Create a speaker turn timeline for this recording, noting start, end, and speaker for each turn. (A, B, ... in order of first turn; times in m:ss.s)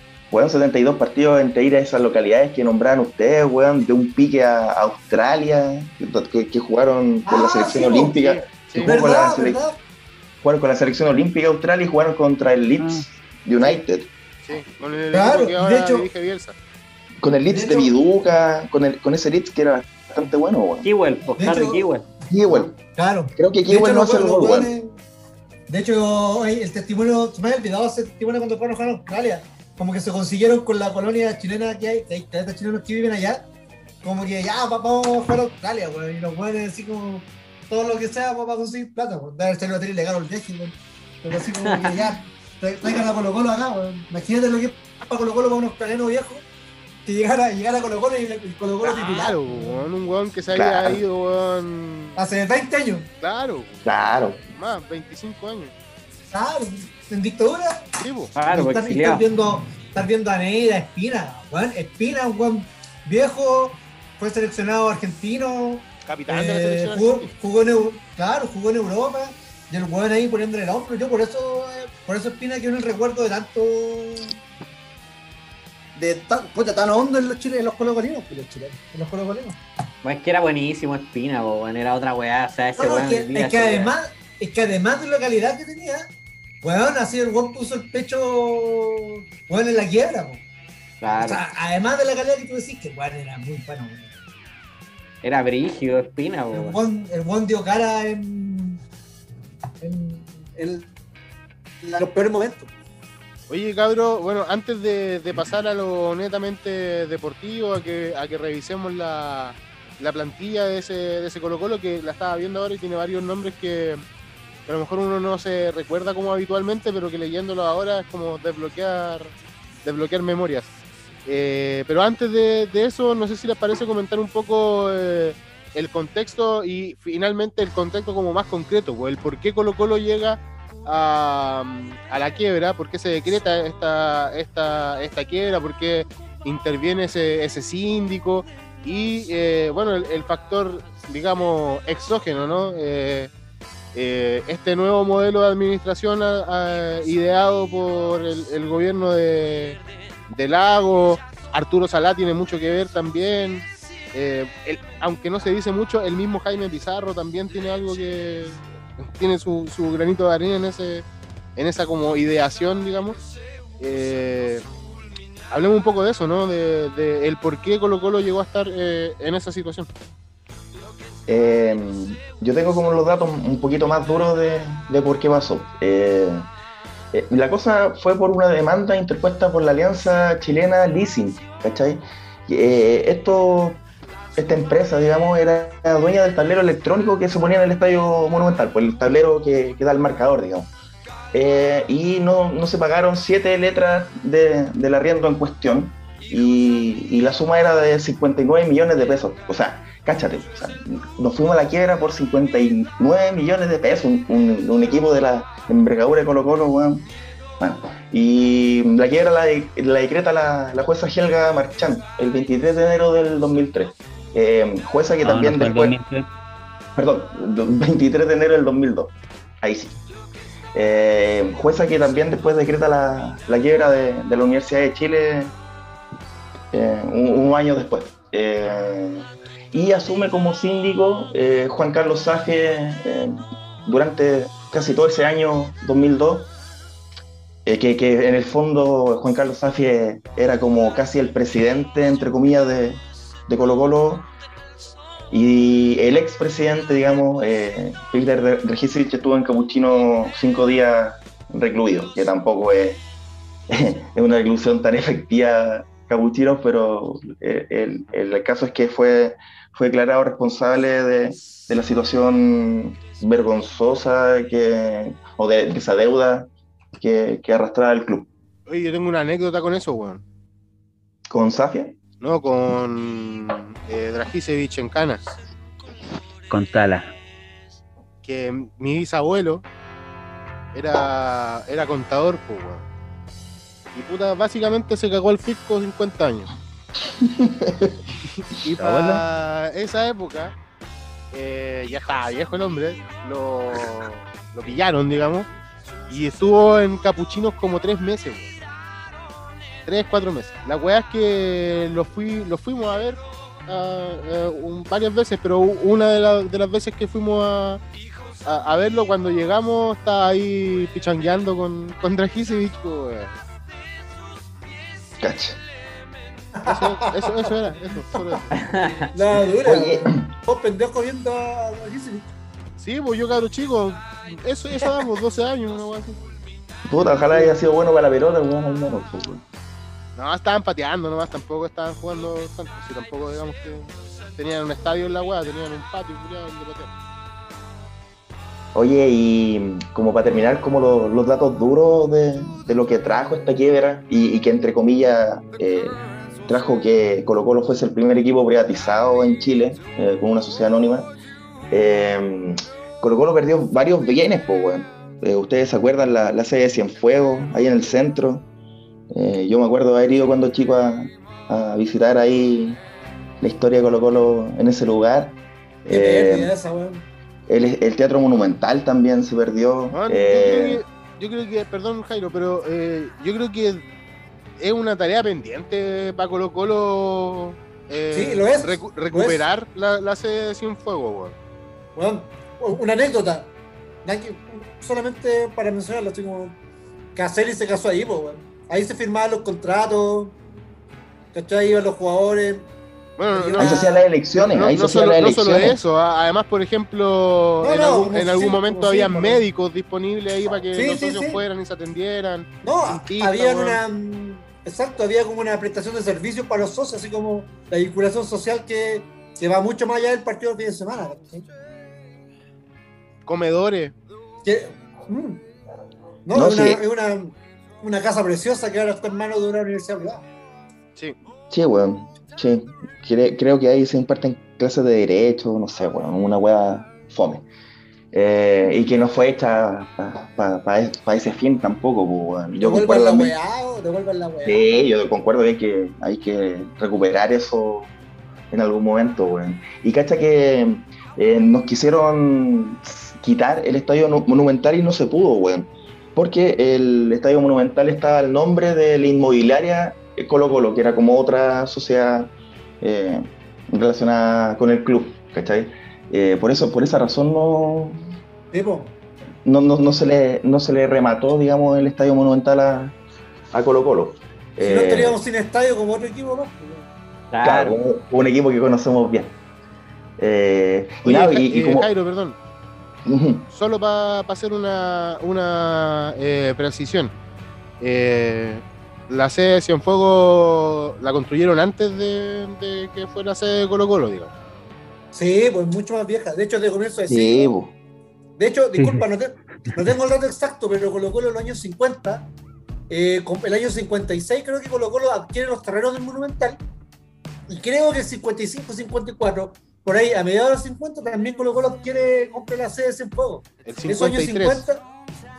0:00.3-0:09.6 A
0:07.3-0:08.2 B
0:08.2-0:09.0 C
0:08.8-0:09.8 B
0:10.4-0:14.1 A
0:12.8-0:13.0 D
0:14.4-0:16.6 C
0:15.1-0:16.1 B
0:17.2-0:20.9 A
0:17.5-0:17.9 B
0:20.8-0:22.0 E
0:21.4-0:21.8 B
0:22.3-0:22.7 A
0:22.5-0:25.0 B
0:23.4-0:24.7 A
0:25.7-0:33.5 B
0:34.0-0:46.4 B
0:41.5-0:42.0 E
0:47.1-0:49.7 B
0:48.8-0:52.2 C
0:50.5-0:51.0 A
0:52.2-0:53.1 B
0:53.2-0:53.8 C
0:53.8-0:54.4 A
0:54.6-0:55.7 C
0:56.3-0:57.9 B
0:58.0-0:58.3 C
0:58.4-0:59.2 E
0:58.5-1:14.4 B
1:06.1-1:07.3 C
1:16.0-1:19.6 B
1:20.0-1:23.9 E
1:22.8-1:26.1 B
1:26.6-1:30.4 B
1:31.0-1:31.4 E
1:31.0-1:34.1 B
1:35.2-1:36.8 E
1:36.5-1:38.8 B
1:39.8-1:40.9 B
1:41.8-1:42.7 B
1:43.5-1:54.0 C
1:54.7-2:00.7 C
2:01.3-2:23.3 C
2:24.0-2:29.8 C
2:30.3-2:43.2 C
2:43.8-2:44.6 C
2:45.5-2:49.9 C
2:51.3-2:56.5 A
2:57.1-3:03.8 A
3:04.4-3:10.7 A
3:11.3-3:27.0 A
3:27.6-3:36.0 A
3:35.2-3:36.3 D
3:37.0-3:40.0 A
3:40.7-3:45.5 A
3:46.7-3:56.5 A
3:57.7-4:04.3 A
4:05.3-4:13.0 A
4:13.7-4:28.3 A
4:28.7-4:30.2 C
4:31.3-4:32.0 A
4:32.2-4:35.3 C
4:36.5-4:37.1 D
4:38.2-4:39.6 C
4:40.7-4:42.9 C
4:44.0-4:46.5 C
4:47.0-4:48.0 A
4:48.6-4:50.6 C
4:48.8-4:49.2 D
4:51.3-4:55.5 C
4:56.1-4:58.5 C
4:59.9-5:07.8 C
5:08.4-5:13.3 C
5:15.2-5:15.6 A
5:16.6-5:17.5 B
5:16.6-5:18.5 C
5:18.5-5:19.1 E
5:19.1-5:22.3 B
5:19.6-5:20.3 A
5:22.8-5:26.2 C
5:26.9-5:29.4 A
5:27.3-5:27.6 B
5:30.2-5:36.9 C
5:38.7-5:51.1 A
5:51.7-5:58.5 A
5:59.1-6:02.8 A
6:03.4-6:06.5 A
6:05.9-6:07.0 B
6:07.5-6:10.8 A
6:09.9-6:13.9 C
6:14.6-6:21.4 C
6:18.1-6:19.5 B
6:22.0-6:23.5 B
6:24.0-6:26.6 B
6:27.2-6:30.4 B
6:31.3-6:32.7 B
6:33.2-6:33.8 C
6:33.3-6:34.0 B
6:33.6-6:35.8 A
6:34.4-6:43.8 C
6:37.6-6:39.4 B
6:40.7-6:41.4 B
6:42.6-6:51.5 B
6:53.3-6:53.9 C
6:54.4-6:55.4 B
6:56.3-7:00.3 B
6:56.3-6:56.8 A
7:01.5-7:07.4 A
7:08.1-7:13.4 A
7:12.6-7:14.7 B
7:14.4-7:17.9 A
7:18.5-7:38.0 A
7:38.5-7:39.0 B
7:39.4-7:43.0 A
7:43.5-7:45.2 A
7:44.6-7:46.9 B
7:47.3-7:47.8 E
7:47.4-7:49.4 A
7:50.2-7:51.9 A
7:51.0-7:52.4 C
7:53.0-7:53.5 A
7:53.5-7:57.1 C
7:57.8-8:04.3 C
8:05.1-8:07.5 B
8:07.1-8:07.7 A
8:08.4-8:12.3 B
8:12.9-8:16.6 B
8:17.5-8:24.8 B
8:23.6-8:24.6 C